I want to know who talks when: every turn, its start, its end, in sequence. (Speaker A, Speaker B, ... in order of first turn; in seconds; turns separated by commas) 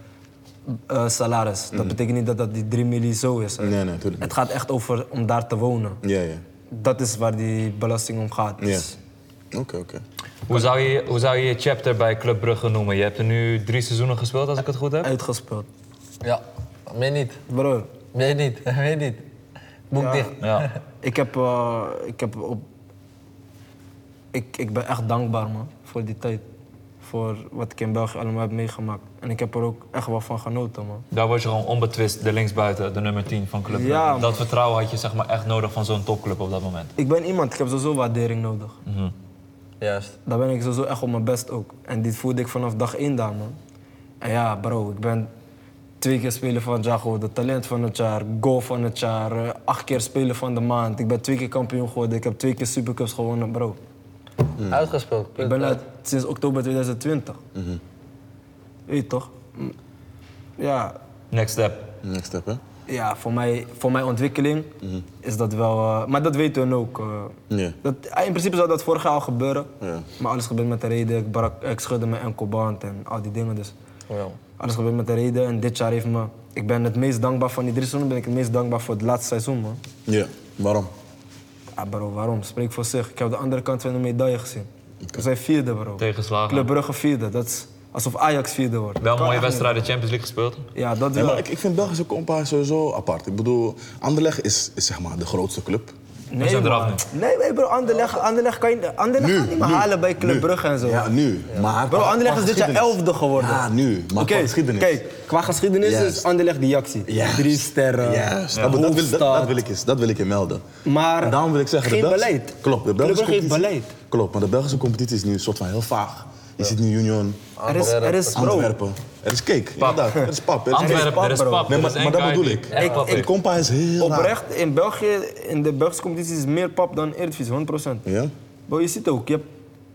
Speaker A: 0.7-6.0, Speaker B: 1.7-2.0, Speaker B: 3.6-4.3, Speaker B: 6.0-6.4, Speaker A: 6.7-8.9, Speaker B: 8.6-8.9, Speaker B: 9.5-10.0, Speaker C: 10.5-15.1, Speaker A: 15.0-15.7, Speaker D: 16.2-17.4, Speaker A: 17.5-17.9, Speaker D: 18.1-19.2, Speaker D: 19.9-20.7, Speaker A: 20.0-20.3, Speaker C: 20.4-20.7, Speaker A: 21.0-22.6, Speaker A: 24.3-26.4, Speaker A: 27.0-31.0, Speaker C: 31.1-36.9, Speaker A: 33.7-34.4, Speaker A: 37.0-38.8, Speaker C: 38.9-39.1, Speaker D: 39.8-40.1, Speaker A: 40.2-43.6, Speaker A: 44.2-45.3, Speaker A: 46.0-53.8, Speaker B: 54.6-54.9, Speaker D: 54.7-55.8, Speaker A: 55.4-57.4, Speaker B: 57.5-57.8, Speaker A: 58.9-59.7, Speaker A: 60.6-61.0, Speaker C: 61.3-61.9, Speaker B: 62.0-62.6, Speaker A: 62.9-73.7, Speaker B: 67.5-67.8, Speaker B: 69.8-70.1, Speaker D: 74.1-74.4, Speaker A: 74.6-79.8, Speaker B: 80.1-80.9, Speaker A: 81.8-89.7, Speaker C: 86.0-86.7, Speaker C: 89.0-90.7, Speaker A: 90.7-91.4, Speaker B: 91.1-95.9, Speaker A: 96.3-101.1, Speaker C: 96.4-97.0, Speaker B: 99.2-105.0, Speaker A: 101.9-103.6, Speaker A: 104.2-109.6, Speaker B: 105.8-106.3, Speaker B: 107.0-110.6, Speaker C: 108.5-108.8, Speaker A: 110.8-113.9, Speaker B: 111.2-124.3, Speaker D: 117.6-118.6, Speaker A: 117.7-118.7, Speaker C: 119.8-123.3, Speaker A: 120.7-121.8, Speaker A: 122.7-123.3, Speaker A: 124.0-128.0, Speaker B: 128.1-128.3, Speaker A: 128.7-129.5